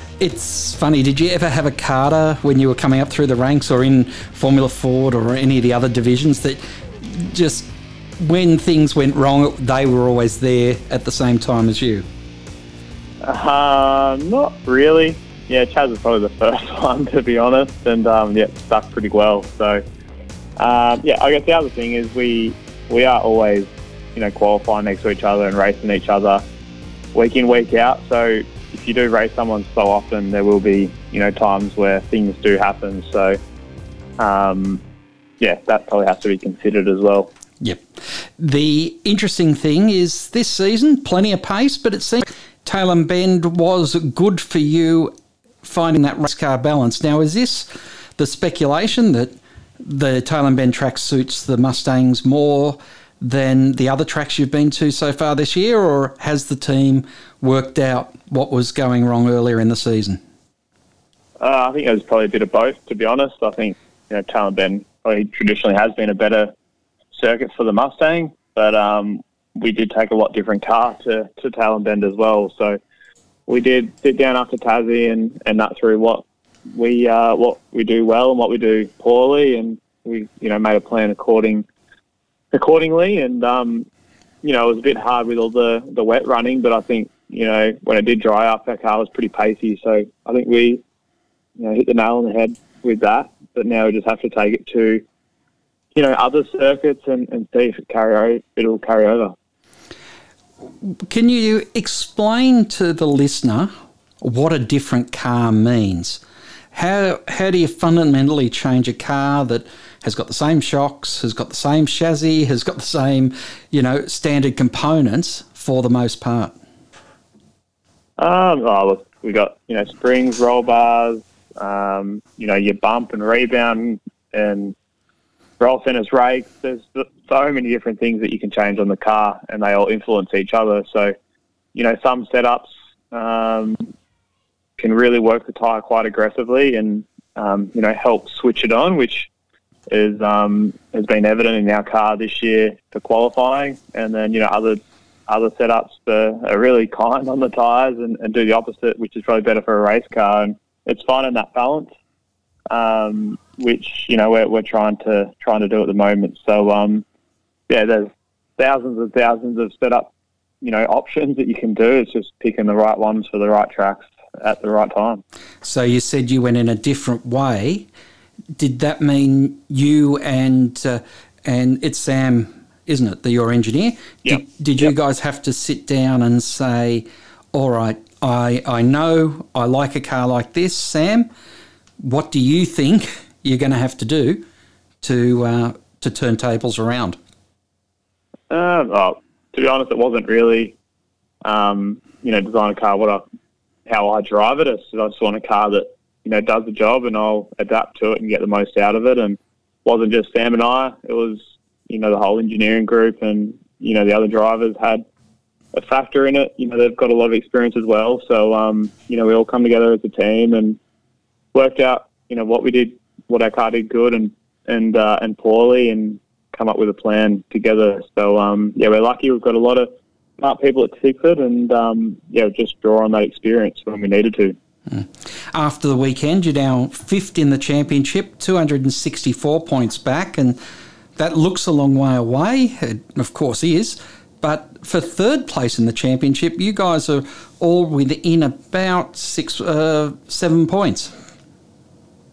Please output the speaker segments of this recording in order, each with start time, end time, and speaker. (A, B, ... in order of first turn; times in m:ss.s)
0:00.2-0:12.0 A
0:13.2-0:19.8 B
0:20.6-0:26.4 B
0:27.2-0:33.4 B
0:34.2-0:34.8 B
0:35.4-0:37.3 B
0:38.4-1:00.2 A
1:01.4-1:06.5 B
1:07.1-1:12.8 B
1:13.5-1:21.6 B
1:22.5-1:23.9 B
1:24.4-1:30.8 B
1:31.6-1:35.0 B
1:36.0-1:39.3 B
1:40.8-1:46.2 A
1:46.7-1:56.6 A
1:58.2-2:04.8 B
2:05.6-2:11.1 B
2:11.7-2:13.8 B
2:14.8-2:19.3 B
2:19.9-2:31.9 B
2:32.7-2:37.0 B
2:37.7-2:45.2 B
2:45.6-2:47.9 A
2:48.6-3:01.3 A
2:54.2-2:54.9 B
3:02.0-3:04.4 A
3:05.0-3:07.2 A
3:08.5-3:10.8 B
3:11.4-3:13.2 B
3:13.9-3:25.0 B
3:25.7-3:30.8 B
3:31.5-3:39.9 B
3:40.4-3:44.6 B
3:44.9-3:50.6 A
3:51.2-4:01.1 A